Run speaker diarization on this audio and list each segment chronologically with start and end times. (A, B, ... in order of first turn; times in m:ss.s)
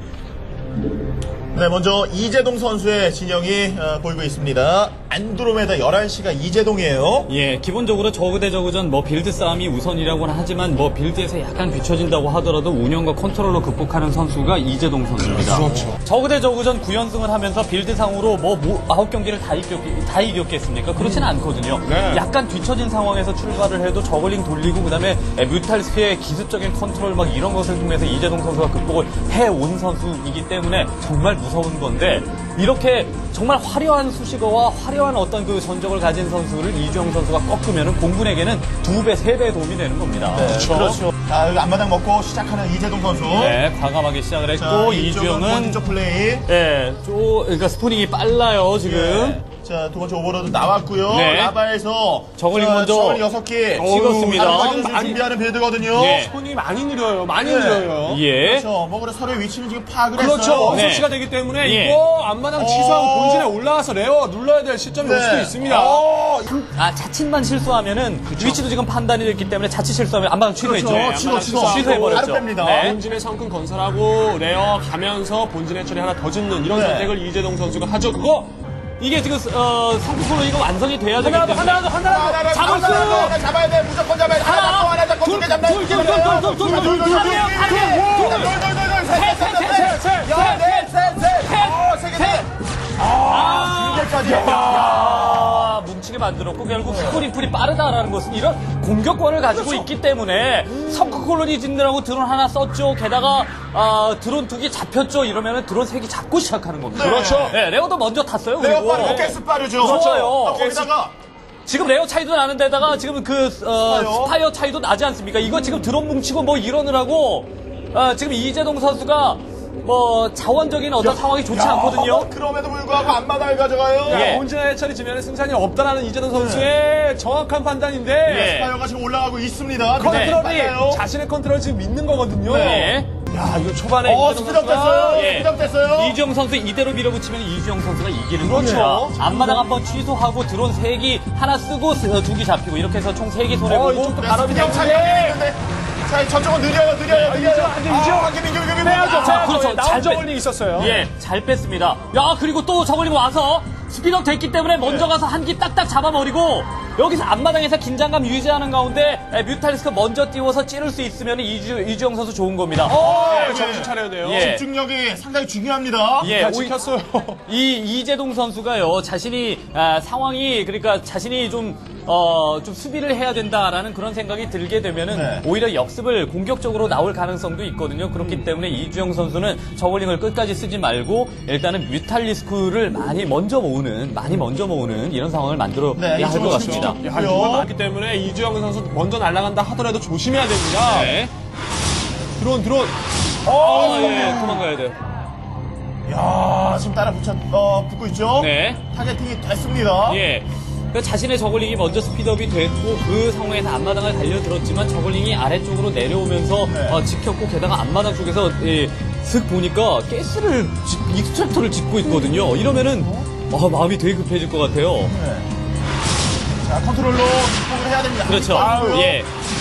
0:01.5-0:07.3 A
0:07.3-0:40.8 B
0:15.3-0:16.0 C
0:21.0-0:21.3 C
0:21.8-0:22.2 C
0:40.4-0:43.6 A
0:40.4-0:41.0 C
0:43.4-0:45.8 B
0:44.6-0:46.4 A
0:46.5-0:49.4 B
0:48.8-0:56.2 A
0:51.1-0:51.6 B
0:52.4-0:53.2 B
0:53.8-0:55.2 C
0:53.8-0:54.8 B
0:55.9-0:58.2 C
0:56.0-0:56.3 B
0:57.4-1:00.9 A
0:58.1-0:58.7 B
1:00.2-1:06.5 C
1:00.6-1:02.0 B
1:02.6-1:03.5 A
1:05.0-1:06.1 A
1:06.5-1:13.0 B
1:08.3-1:08.6 C
1:10.6-1:12.9 A
1:10.8-1:18.5 C
1:16.7-1:17.2 A
1:19.0-1:23.4 B
1:21.2-1:23.3 C
1:22.0-1:32.5 A
1:24.4-1:32.5 B
1:26.2-1:28.6 C
1:29.6-1:30.4 C
1:33.1-1:35.1 A
1:33.2-1:50.7 B
1:34.2-1:35.3 C
1:36.8-1:37.3 A
1:39.5-1:39.9 C
1:40.7-1:41.3 C
1:46.9-1:47.6 A
1:47.0-1:47.6 C
1:48.6-1:51.1 A
1:48.7-1:50.9 C
1:51.7-2:02.3 B
1:53.8-1:54.4 A
2:01.0-2:04.4 A
2:04.0-2:08.5 C
2:04.1-2:04.4 B
2:06.4-2:06.7 A
2:08.2-2:11.0 A
2:08.3-2:08.8 B
2:10.0-2:15.3 C
2:10.0-2:10.4 B
2:12.4-2:12.9 A
2:12.5-2:13.1 B
2:14.0-2:16.2 A
2:15.1-2:24.3 B
2:18.4-2:19.7 C
2:23.6-2:25.4 C
2:24.1-2:29.4 A
2:27.1-2:31.0 C
2:29.0-2:44.6 B
2:34.8-2:35.1 A
2:42.8-2:44.5 C
2:43.0-2:46.3 A
2:46.2-2:47.4 C
2:46.2-2:46.7 B
2:47.5-3:07.0 B
2:55.1-2:55.4 A
3:06.0-3:07.7 A
3:06.2-3:11.2 C
3:10.8-3:11.3 B
3:12.4-3:13.0 C
3:13.5-3:14.6 A
3:13.5-3:15.0 B
3:16.1-3:20.2 A
3:18.4-3:18.8 B
3:20.1-3:35.2 B
3:26.7-3:27.0 A
3:32.4-3:33.2 A
3:35.0-3:35.5 A
3:36.6-3:39.2 A
3:38.3-3:39.3 B
3:38.5-3:39.2 C